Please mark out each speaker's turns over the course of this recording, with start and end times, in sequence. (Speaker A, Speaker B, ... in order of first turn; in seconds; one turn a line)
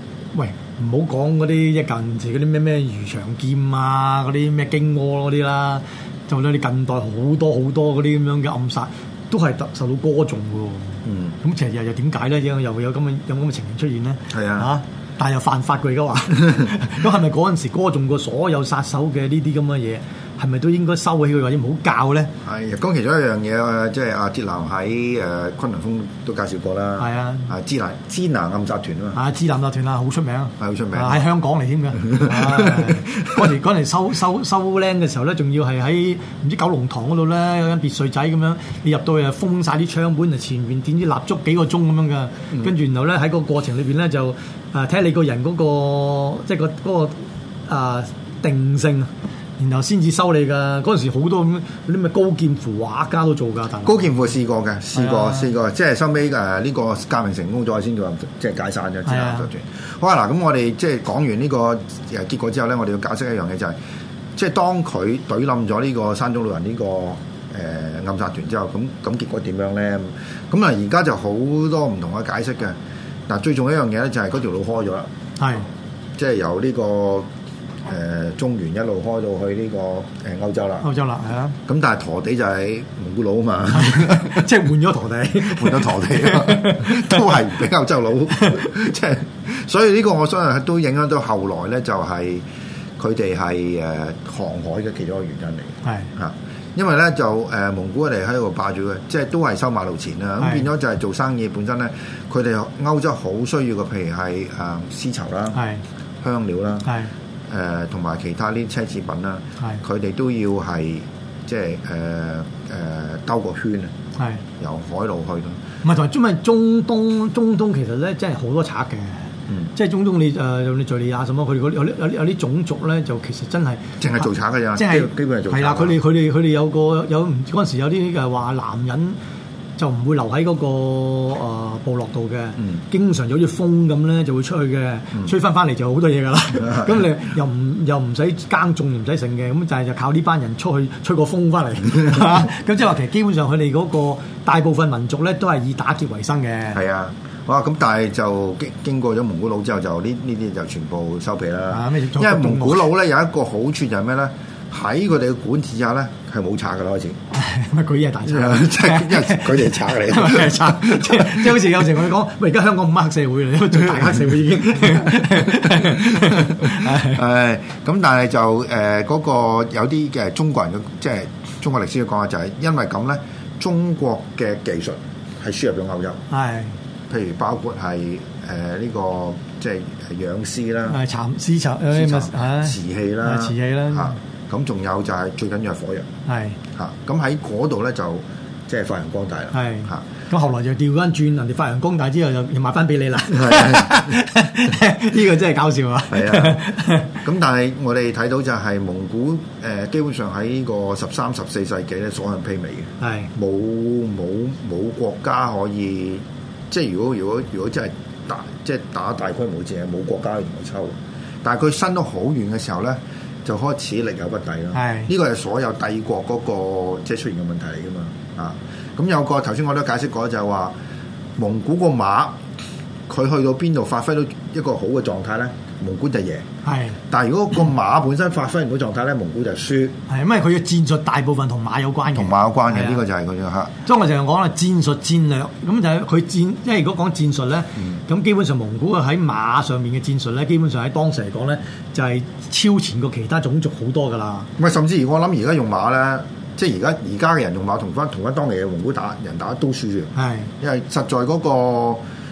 Speaker A: 0.3-22.3
Speaker B: 11.1-11.4
Speaker B: 14.3-14.7
Speaker B: 22.4-29.2
Speaker A: 27.0-27.5
Speaker A: 29.1-54.0
Speaker B: 30.6-31.3
Speaker B: 32.1-33.5
Speaker B: 53.8-63.8
Speaker A: 54.9-55.5
Speaker A: 59.1-59.5
Speaker B: 64.3-72.8
Speaker B: 73.3-75.1
Speaker A: 75.4-75.7
Speaker B: 76.2-77.3
Speaker B: 77.8-80.9
Speaker A: 80.8-81.6
Speaker B: 81.7-84.5
Speaker A: 83.7-87.4
Speaker B: 85.4-92.4
Speaker B: 93.0-105.6
Speaker A: 100.4-100.7
Speaker A: 105.5-105.8
Speaker B: 106.2-106.9
Speaker A: 106.8-107.1
Speaker B: 107.5-113.9
Speaker A: 114.2-114.4
Speaker B: 114.6-115.6
Speaker A: 115.8-129.2
Speaker B: 124.0-126.0
Speaker A: 129.8-146.8
Speaker B: 136.7-136.9
Speaker B: 146.7-157.2
Speaker A: 151.7-152.9
Speaker A: 157.3-167.2
Speaker B: 158.2-161.8
Speaker B: 166.2-176.2
Speaker A: 176.3-176.7
Speaker B: 177.1-181.0
Speaker A: 180.9-184.2
Speaker B: 181.9-186.1
Speaker A: 186.3-186.6
Speaker B: 186.7-190.1
Speaker A: 189.5-197.2
Speaker B: 193.3-194.2
Speaker B: 196.1-196.7
Speaker B: 197.2-220.7
Speaker A: 203.0-203.3
Speaker A: 214.7-215.1
Speaker B: 221.4-222.3
Speaker B: 223.1-226.4
Speaker A: 226.7-227.0
Speaker B: 227.1-229.9
Speaker A: 230.1-233.0
Speaker B: 232.1-233.7
Speaker A: 233.8-244.5
Speaker B: 244.6-252.0
Speaker A: 250.2-250.5